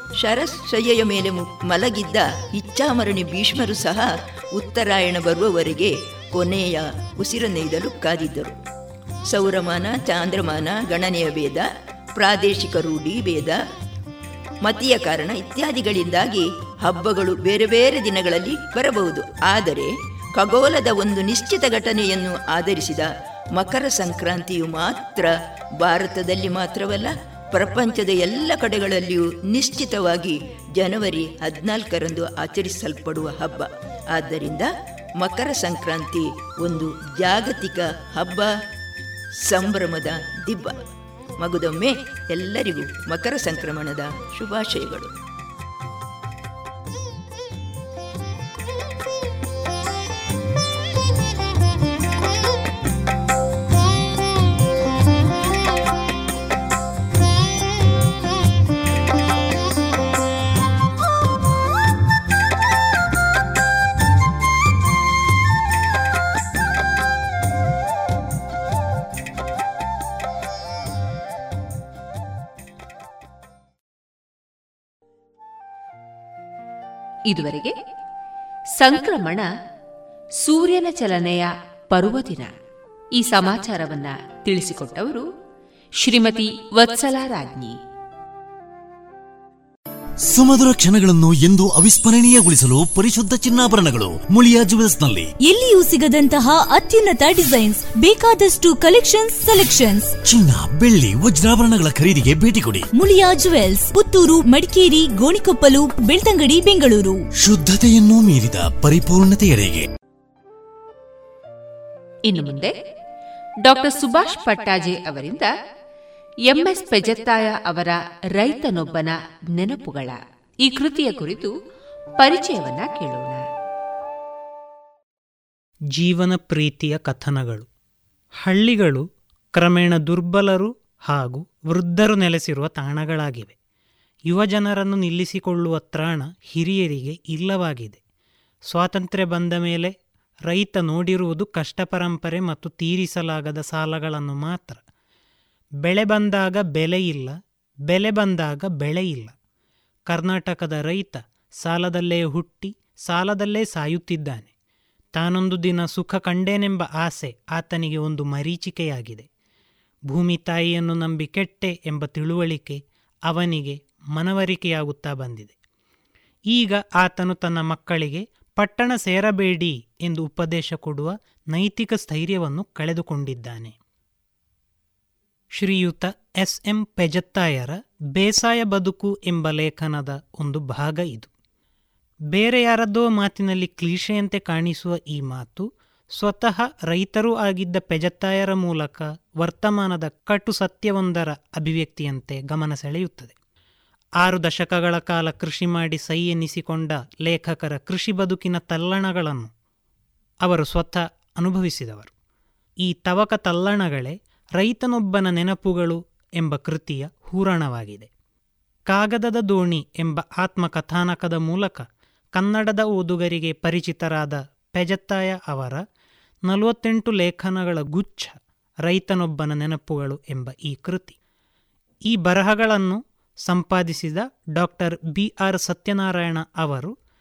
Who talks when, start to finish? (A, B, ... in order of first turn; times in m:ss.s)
0:00.2-0:08.6 A
0:09.3-0:13.6 A
0:14.6-0:38.5 A
0:39.4-0:40.8 A
0:41.4-0:45.1 A
1:17.3-1:17.7 B
1:18.8-1:19.4 B
1:20.4-1:22.6 B
1:23.2-1:25.2 B
1:26.0-1:27.8 B
1:30.3-1:35.3 C
1:35.4-1:40.2 D
1:40.3-1:42.8 C
1:43.0-1:47.2 D
1:47.4-1:49.9 C
1:52.3-1:52.7 B
1:53.6-1:55.5 B
1:56.5-2:01.5 B
2:02.2-2:03.4 B
2:05.9-2:07.7 E
2:08.4-2:13.5 E
2:14.3-2:18.0 E
2:18.7-2:19.9 E
2:20.5-2:24.8 E
2:25.8-2:27.3 E
2:27.9-2:29.3 E
2:30.1-2:34.5 E
2:35.2-2:39.3 E
2:40.1-2:45.5 E
2:46.5-2:53.7 E
2:55.6-3:01.3 E
3:02.3-3:13.3 E
3:14.2-3:19.5 E
3:20.4-3:22.1 E
3:22.8-3:28.1 E
3:28.9-3:35.8 E
3:36.5-3:41.1 E
3:42.1-3:46.9 E